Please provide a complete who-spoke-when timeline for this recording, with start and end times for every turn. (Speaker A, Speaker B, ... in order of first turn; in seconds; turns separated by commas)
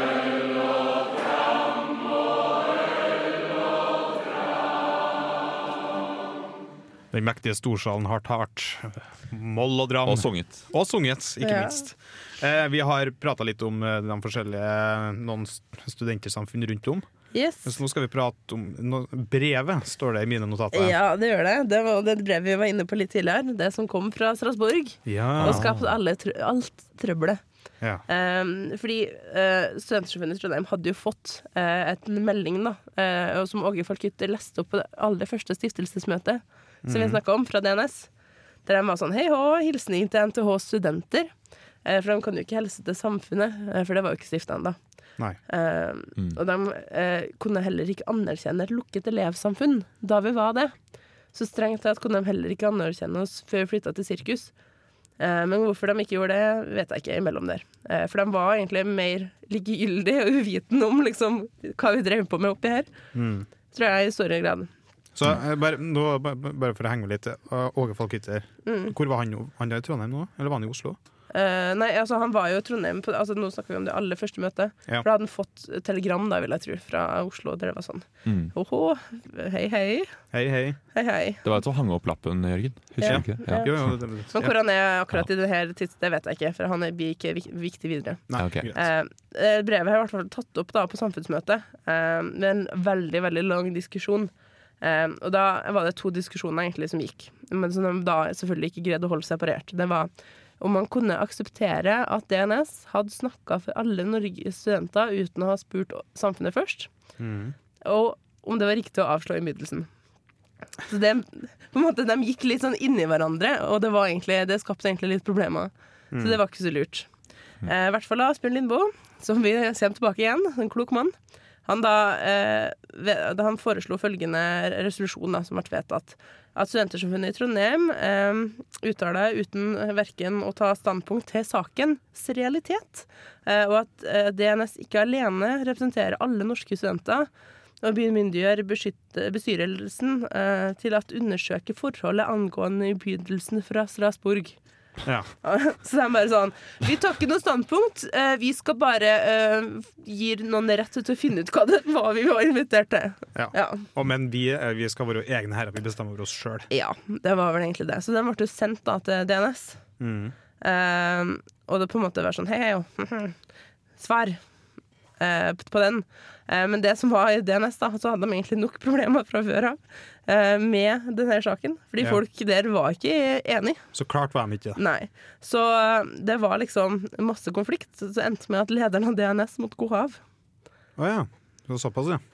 Speaker A: 7.1-17.1, Speaker B: 10.0-10.6, Speaker C: 11.4-11.8, Speaker C: 17.3-17.7, Speaker A: 17.6-21.0, Speaker C: 20.7-27.4, Speaker A: 25.1-25.6, Speaker B: 25.4-25.9, Speaker C: 28.1-38.1, Speaker A: 36.8-37.2, Speaker C: 38.6-41.3, Speaker C: 41.8-44.8, Speaker C: 45.5-54.5, Speaker C: 55.2-62.9, Speaker A: 63.1-63.5, Speaker C: 63.7-64.7, Speaker A: 65.1-71.0, Speaker C: 68.6-68.9, Speaker C: 71.3-80.2, Speaker B: 78.2-78.5, Speaker A: 80.3-80.8, Speaker C: 80.9-81.4, Speaker B: 81.4-83.9, Speaker C: 83.0-106.9, Speaker A: 83.0-84.5, Speaker A: 88.3-88.8, Speaker B: 88.3-88.7, Speaker A: 107.2-107.5, Speaker C: 107.8-109.9, Speaker C: 110.9-117.1, Speaker A: 116.1-116.4, Speaker C: 117.6-121.1, Speaker C: 121.6-137.3, Speaker C: 137.8-144.6, Speaker A: 145.0-145.3, Speaker C: 145.4-153.8, Speaker A: 153.3-156.7, Speaker C: 156.7-159.8, Speaker A: 160.0-160.3, Speaker C: 160.6-163.4, Speaker C: 164.0-164.4, Speaker C: 165.2-173.8, Speaker A: 173.9-174.8, Speaker C: 174.8-180.2, Speaker A: 181.0-182.2